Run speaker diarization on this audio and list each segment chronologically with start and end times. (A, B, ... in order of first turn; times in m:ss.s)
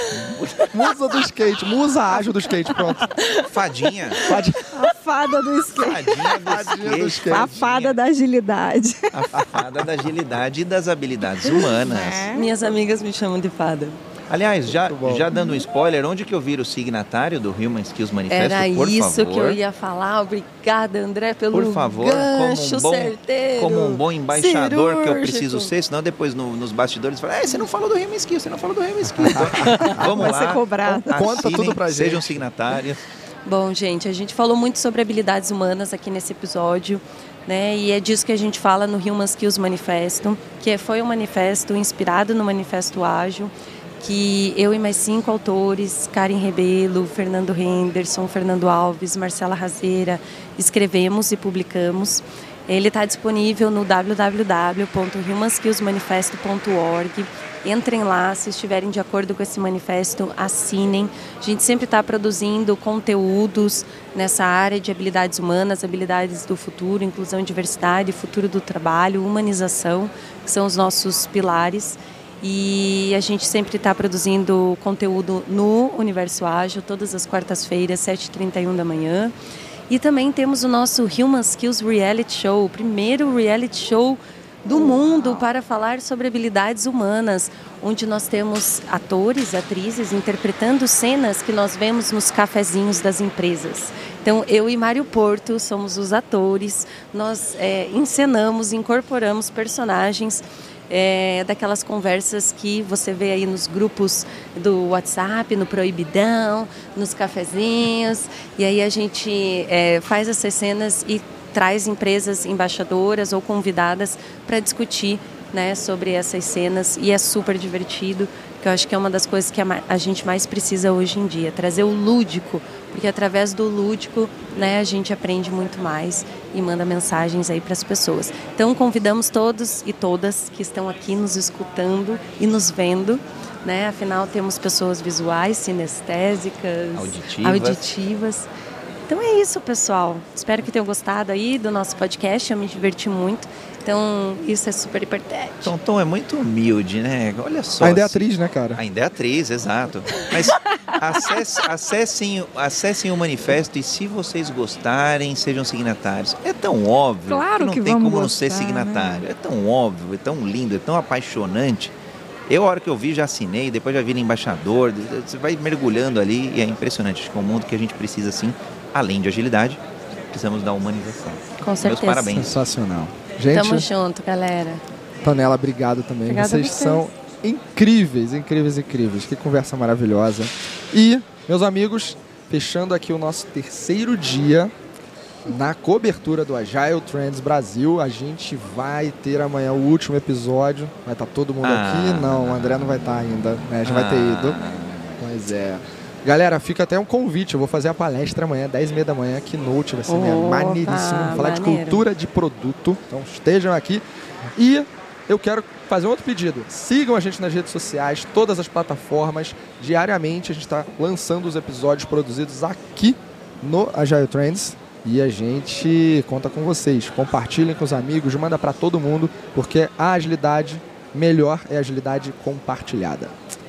0:00.1-0:00.7 A
0:00.7-0:03.1 B
0:02.8-0:03.4 C
0:03.4-0:04.2 A
0:04.2-0:04.7 B
0:04.7-0:06.6 D
0:05.8-0:08.0 A
0:06.5-0:07.6 B
0:07.2-0:09.2 D
0:09.1-0:12.3 A
0:09.4-0:09.6 B
0:11.4-0:12.5 D
0:12.3-0:14.0 C
0:14.3-0:19.6 A
0:14.7-0:15.3 B
0:18.3-0:25.7 C
0:21.5-0:33.0 A
0:29.2-0:30.1 B
0:29.5-0:30.0 C
0:30.0-0:31.4 D
0:31.1-0:32.4 B
0:33.4-1:19.3 C
1:19.9-2:18.5 C
2:16.9-2:17.8 A
2:19.1-2:25.7 C
2:25.6-2:41.9 A
2:27.8-2:28.8 B
2:37.3-2:39.2 D
2:42.5-2:52.6 A
2:51.6-2:52.4 C
2:52.3-2:53.9 B
2:53.5-2:54.8 C
2:55.2-3:04.7 B
2:56.2-2:57.0 C
3:05.4-3:14.6 B
3:11.6-3:13.0 A
3:13.8-3:15.2 A
3:15.2-3:24.0 B
3:20.1-3:22.0 C
3:24.6-3:43.3 B